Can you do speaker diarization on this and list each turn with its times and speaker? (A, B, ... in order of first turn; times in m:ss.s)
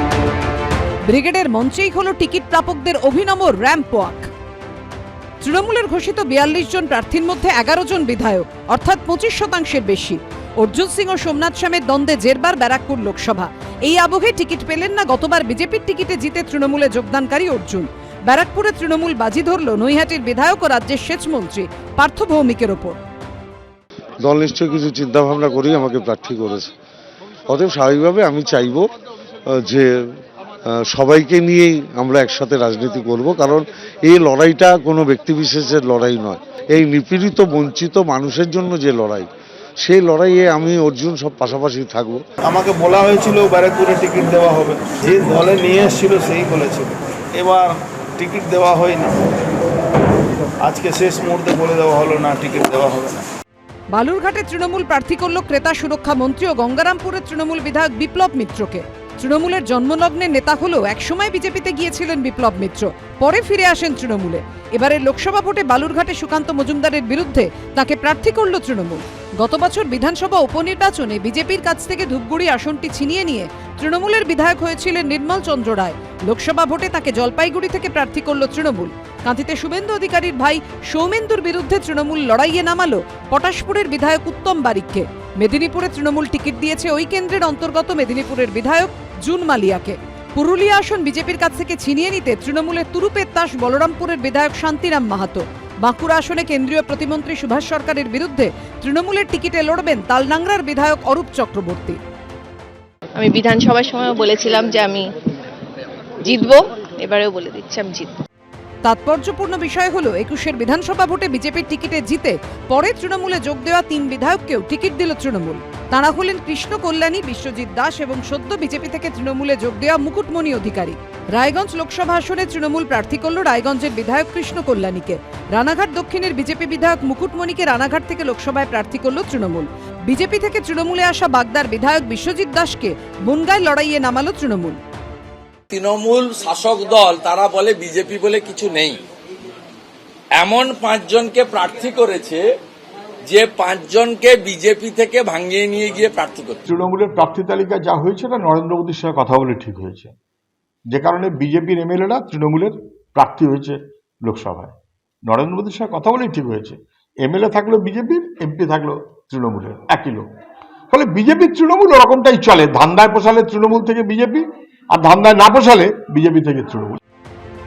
0:01.1-0:04.3 A
0:05.4-0:23.0 A
0:24.2-0:26.7 B
0:27.5-0:28.9 B
0:29.5-0:30.1 B
0:30.7-0:39.3 B
0:39.8-0:42.2 B
0:42.4-0:49.3 C
0:50.6-0:53.3 C
0:53.9-1:42.0 A
1:43.2-1:45.1 D
1:46.2-1:48.2 D
1:48.8-2:14.8 A
2:15.7-2:19.0 E
2:20.4-2:22.4 E
2:23.3-2:26.6 E
2:26.7-2:30.1 F
2:30.9-2:34.7 F
2:35.2-2:40.3 F
2:40.9-2:47.0 F